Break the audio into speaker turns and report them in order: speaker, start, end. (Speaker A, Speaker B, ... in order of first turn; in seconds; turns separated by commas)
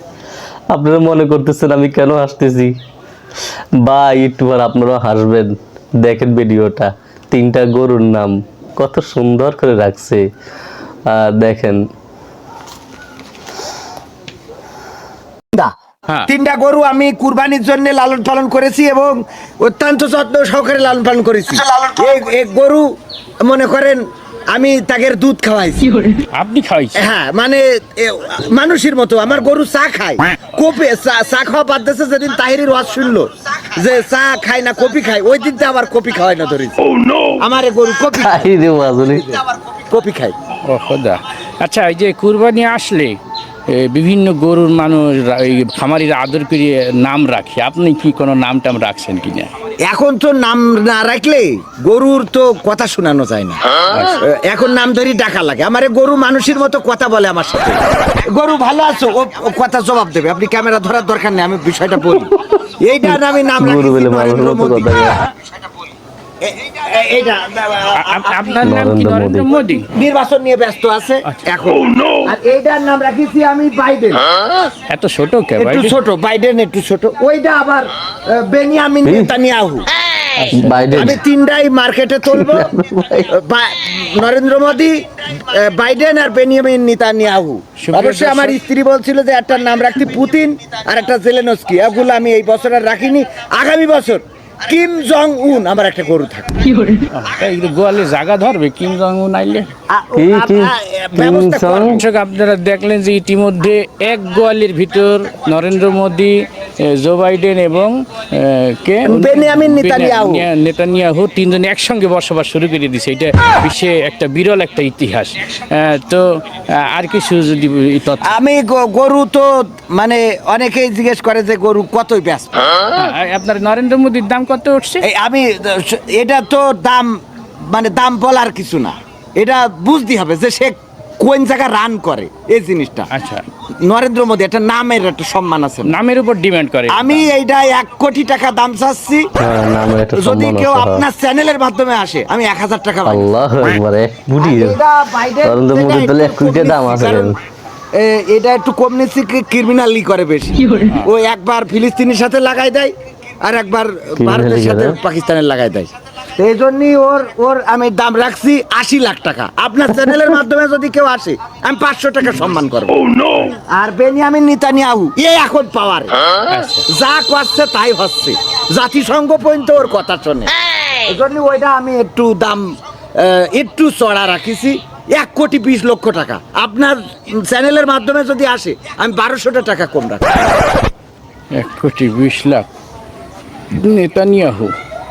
Speaker A: 0.7-2.7, Speaker A: 3.8-10.3, Speaker A: 11.1-11.8, Speaker B: 16.2-22.9, Speaker B: 23.4-26.0, Speaker C: 26.3-27.1, Speaker B: 26.9-38.5, Speaker A: 38.2-39.3, Speaker B: 39.1-40.3, Speaker C: 40.6-49.5, Speaker B: 49.8-53.6, Speaker C: 53.9-54.2, Speaker B: 54.2-65.1, Speaker A: 63.6-65.2, Speaker B: 66.4-68.7, Speaker C: 68.0-69.9, Speaker A: 68.6-69.5, Speaker B: 69.9-74.3, Speaker C: 74.9-76.0, Speaker B: 75.6-79.9, Speaker A: 79.0-79.3, Speaker C: 80.3-81.2, Speaker A: 80.5-81.2, Speaker B: 80.9-96.6, Speaker A: 82.3-83.3, Speaker C: 87.8-88.6, Speaker C: 97.1-99.7, Speaker B: 99.9-102.0, Speaker A: 100.2-102.0, Speaker C: 101.8-118.3, Speaker B: 109.0-110.5, Speaker B: 118.2-122.5, Speaker C: 122.9-125.0, Speaker B: 125.0-133.1, Speaker C: 133.1-133.4, Speaker B: 133.8-135.9, Speaker C: 135.8-137.3, Speaker B: 136.9-139.3, Speaker A: 139.4-141.0, Speaker B: 140.1-143.3, Speaker A: 143.1-144.8, Speaker B: 144.4-147.3, Speaker A: 145.4-147.3, Speaker B: 147.9-166.3, Speaker A: 154.2-154.9, Speaker C: 166.5-166.8, Speaker B: 166.9-180.4, Speaker C: 181.5-182.7, Speaker C: 183.7-184.7